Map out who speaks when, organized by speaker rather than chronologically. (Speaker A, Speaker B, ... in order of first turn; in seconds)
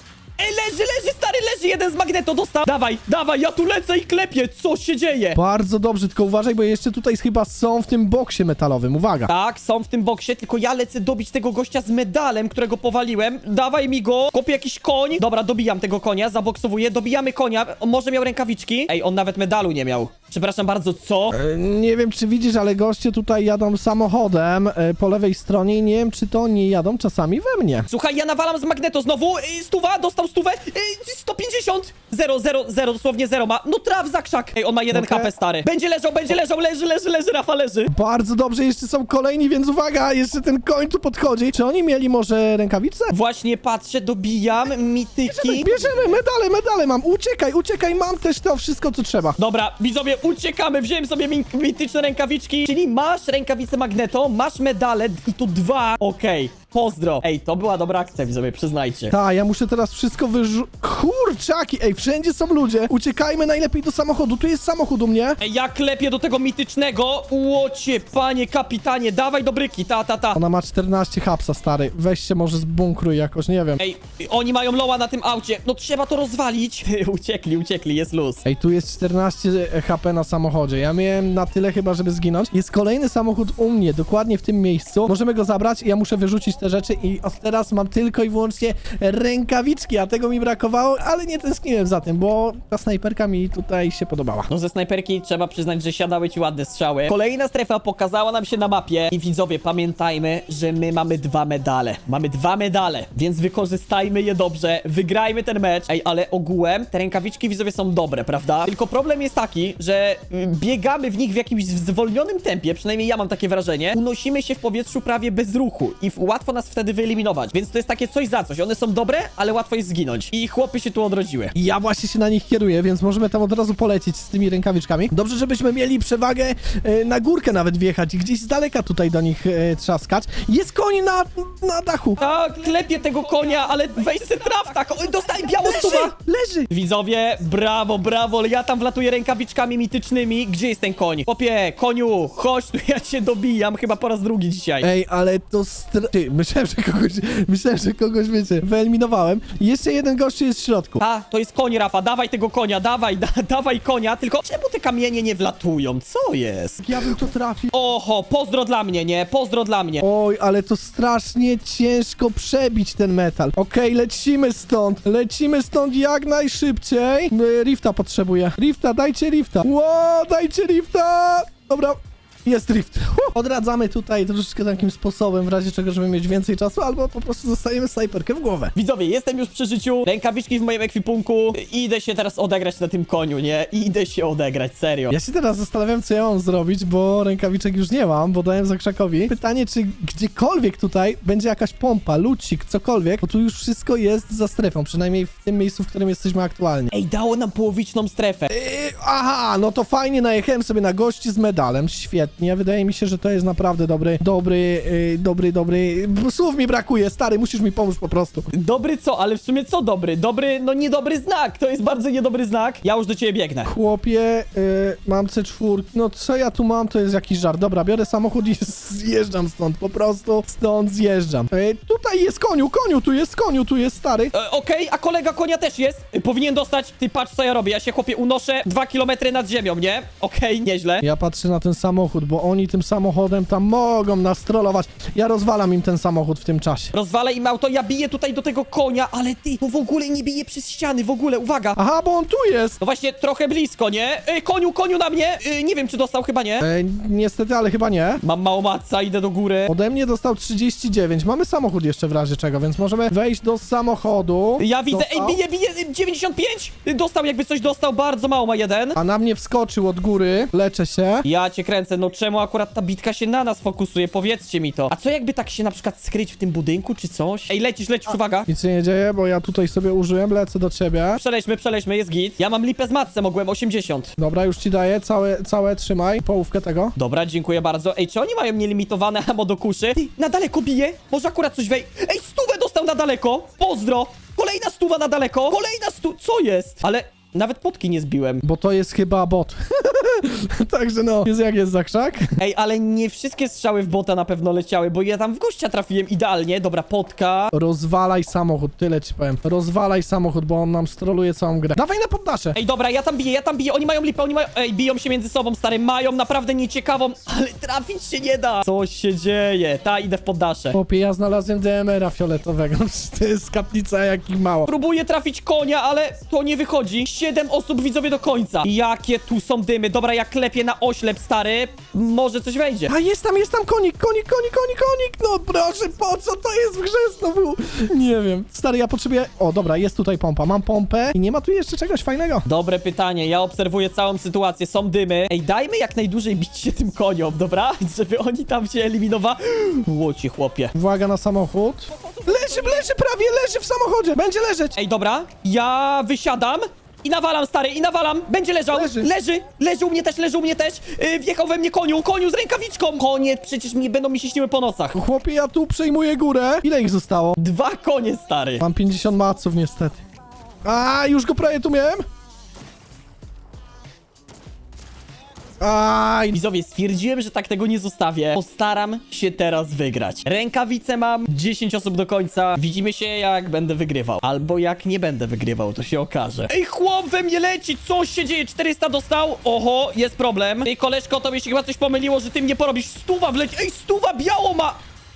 Speaker A: 0.4-5.4, 9.3-21.4, 27.9-37.9, 43.1-46.1, 49.4-59.1, 65.4-70.4, 73.8-78.4, 94.5-121.5, 132.2-136.1, 136.7-144.9, 151.0-157.2, 157.7-160.1, 178.8-185.1, 196.9-198.5, 208.5-213.7, 224.3-231.1, 236.9-241.8, 242.8-246.7, 248.2-249.7, 254.6-259.0, 261.2-268.5, 271.2-274.1, 277.0-288.4, 292.4-297.5, 302.6-310.8, 314.7-322.9, 332.5-340.7, 341.9-342.9, 344.8-355.0, 357.4-358.6, 366.3-384.8
Speaker B: 5.3-9.3, 21.3-27.9, 34.9-35.3, 37.9-43.1, 45.3-49.4, 59.1-65.4, 70.4-73.8, 78.5-94.5, 121.6-132.2, 135.4-136.7, 144.8-151.0, 156.8-157.7, 160.0-178.7, 185.1-196.9, 198.5-208.5, 213.7-224.3, 231.0-236.9, 241.8-242.8, 246.6-248.2, 249.7-255.4, 259.0-261.2, 268.5-271.2, 274.2-276.9, 288.4-292.3, 297.5-302.6, 310.7-314.7, 322.9-332.4, 340.8-344.8, 348.7-349.1, 354.9-357.4, 358.6-360.0, 360.6-362.0, 365.6-366.4